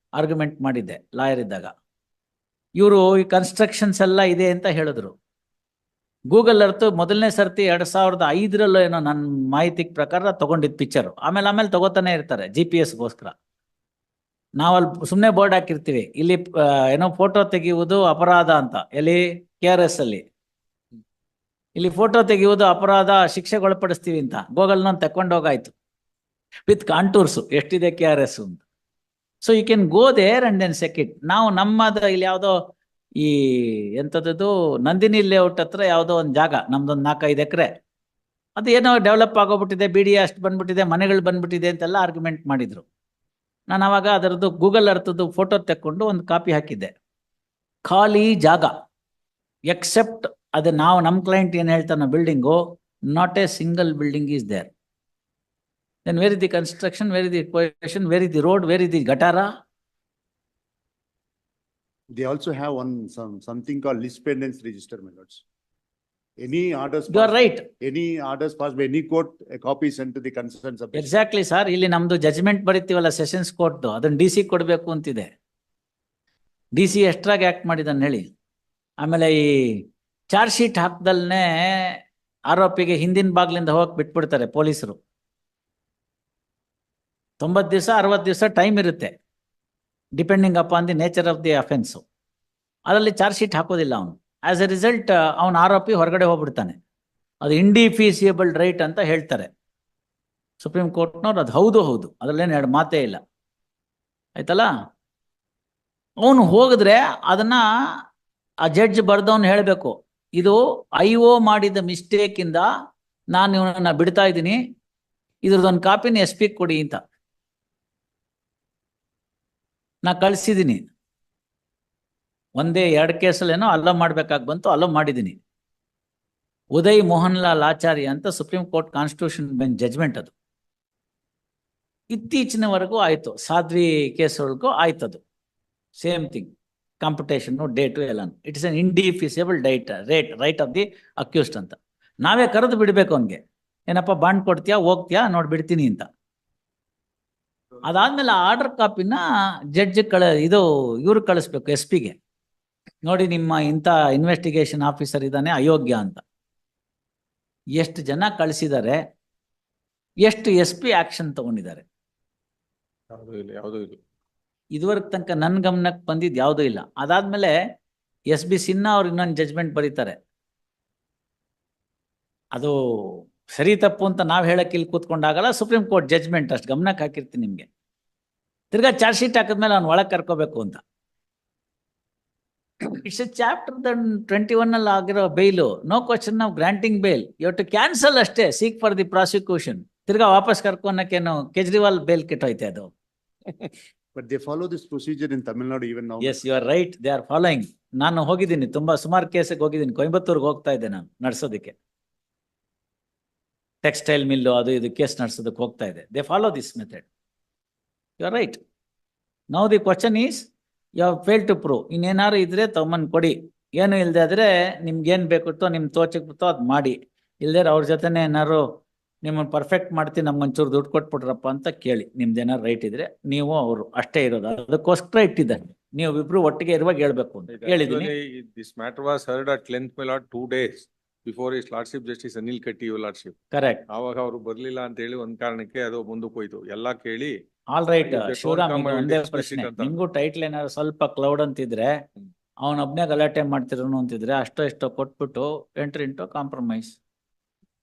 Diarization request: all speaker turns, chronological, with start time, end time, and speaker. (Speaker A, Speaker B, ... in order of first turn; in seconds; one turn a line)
Speaker A: 0.2-1.7
Speaker A: 2.8-5.1
Speaker A: 6.3-13.3
Speaker A: 14.6-20.2
Speaker A: 21.8-25.7
Speaker A: 26.7-28.6
Speaker A: 29.4-32.6
Speaker A: 33.2-37.7
Speaker A: 38.6-42.9
Speaker A: 43.7-46.9
Speaker A: 47.8-48.7
Speaker A: 49.7-54.7
Speaker A: 56.0-59.5
Speaker B: 62.1-65.4
Speaker B: 66.4-71.1
Speaker A: 67.1-67.7
Speaker A: 70.9-75.3
Speaker A: 76.7-78.3
Speaker A: 79.0-85.0
Speaker A: 87.4-89.1
Speaker A: 90.2-92.0
Speaker A: 92.9-96.8
Speaker A: 97.4-99.5
Speaker A: 100.6-103.2
Speaker A: 104.3-104.7
Speaker A: 106.2-107.6
Speaker A: 108.7-112.7
Speaker A: 113.3-114.6
Speaker A: 115.4-117.0
Speaker A: 120.0-120.9
Speaker A: 122.6-125.4
Speaker A: 126.7-130.3
Speaker A: 132.1-135.2
Speaker A: 136.0-146.1
Speaker A: 147.8-149.2
Speaker A: 149.7-152.2
Speaker A: 153.0-156.2
Speaker A: 157.8-159.0
Speaker A: 160.2-161.8
Speaker C: 163.1-164.0
Speaker A: 164.7-167.6
Speaker A: 168.3-170.2
Speaker A: 172.5-177.7
Speaker A: 178.7-180.8
Speaker A: 182.8-192.9
Speaker B: 194.1-196.4
Speaker A: 196.2-201.8
Speaker A: 203.8-207.1
Speaker A: 208.2-208.6
Speaker A: 209.5-210.5
Speaker A: 211.0-218.6
Speaker A: 219.2-228.1
Speaker C: 227.5-233.3
Speaker A: 233.5-233.8
Speaker C: 233.9-237.3
Speaker A: 237.7-241.9
Speaker C: 238.0-240.0
Speaker A: 242.6-247.0